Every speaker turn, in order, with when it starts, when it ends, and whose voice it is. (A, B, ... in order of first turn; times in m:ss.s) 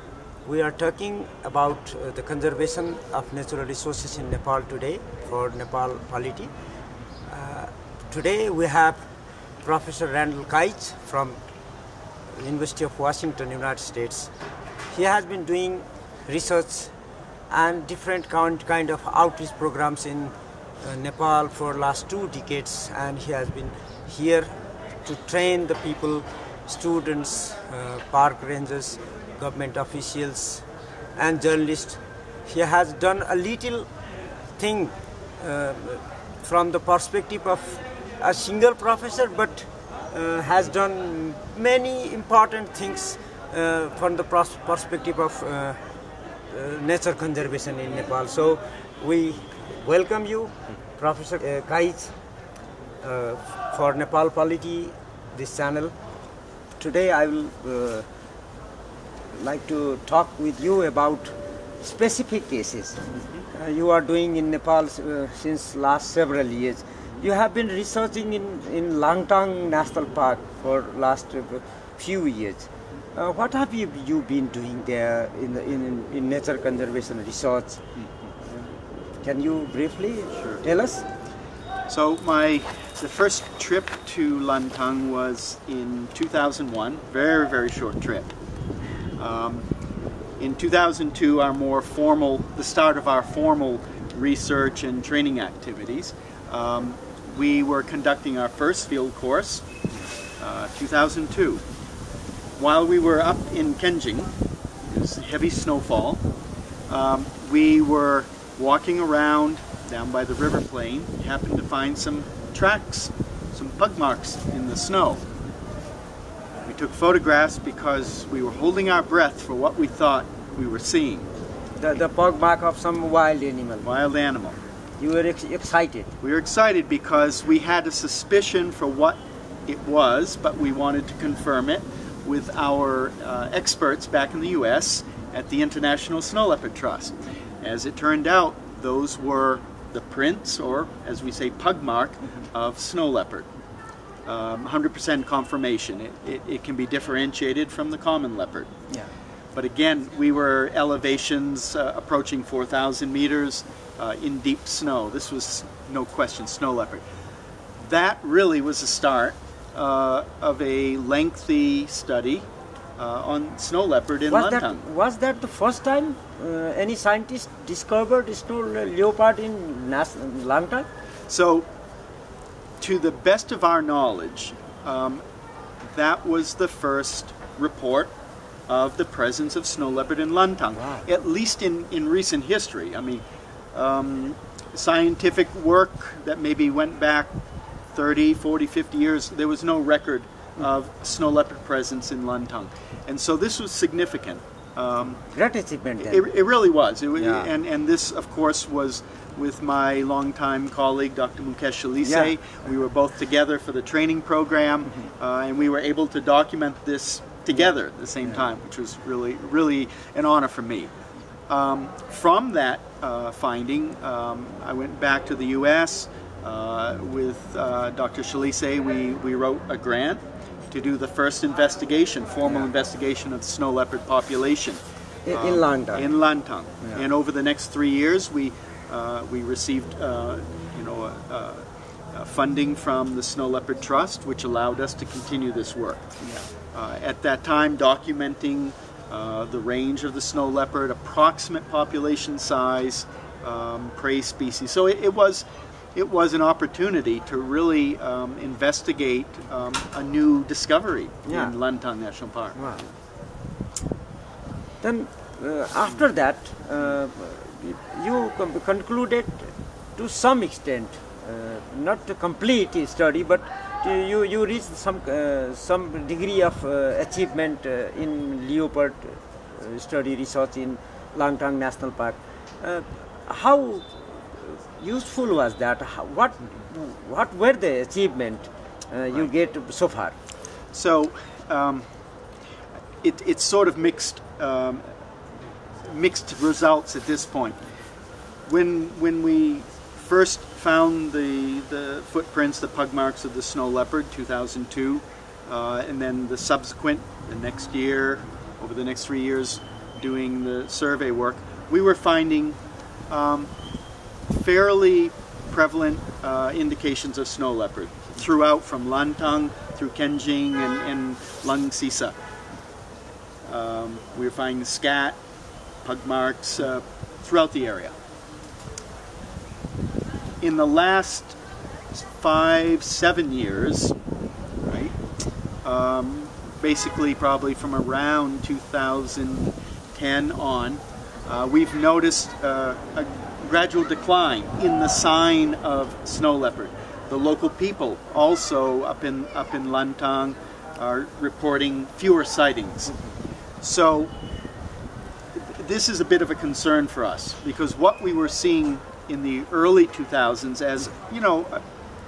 0:00.4-0:06.5 A
0:07.3-0:09.0 A
0:09.6-0:11.4 A
0:12.3-0:14.3 A
0:14.9-0:16.9 A
0:17.5-0:24.5 A
0:25.0-0:30.6 A
0:31.2-0:33.9 A
0:34.6-0:45.8 A
0:46.5-0:52.1 A
0:53.0-0:55.9 A
0:56.8-0:58.1 A
0:59.3-1:17.8 A
1:18.2-1:18.5 B
1:19.2-1:21.0 A
1:20.4-1:20.6 B
1:21.9-1:28.3 B
1:29.2-1:29.7 B
1:30.4-1:39.7 B
1:40.4-1:41.6 B
1:42.6-1:44.3 B
1:44.8-1:46.2 B
1:46.9-1:55.2 B
1:56.7-2:01.3 B
2:01.8-2:03.9 A
2:03.8-2:04.6 B
2:05.0-2:06.1 A
2:06.2-2:23.5 B
2:24.3-2:28.7 B
2:29.6-2:37.0 B
2:37.8-2:44.8 B
2:44.3-2:50.9 A
2:51.3-2:51.7 B
2:52.8-2:55.2 B
2:55.8-2:58.1 B
2:58.7-3:07.3 B
3:00.7-3:01.1 A
3:07.9-3:15.2 B
3:15.3-3:16.3 A
3:16.0-3:30.9 B
3:17.2-3:17.5 A
3:22.0-3:22.3 A
3:31.5-4:12.6 B
3:45.3-3:46.1 A
4:11.3-4:11.5 A
4:12.6-4:12.8 A
4:14.8-4:40.2 A
4:40.7-4:41.9 B
4:43.0-4:44.9 B
4:45.8-4:47.6 B
4:48.5-5:02.6 B
5:03.1-5:03.5 B
5:04.3-5:12.2 B
5:13.4-5:15.2 B
5:15.8-5:17.9 B
5:20.4-5:21.4 B
5:21.9-5:24.0 B
5:24.7-5:25.0 B
5:25.6-5:43.0 B
5:43.6-5:44.1 B
5:45.4-5:51.6 B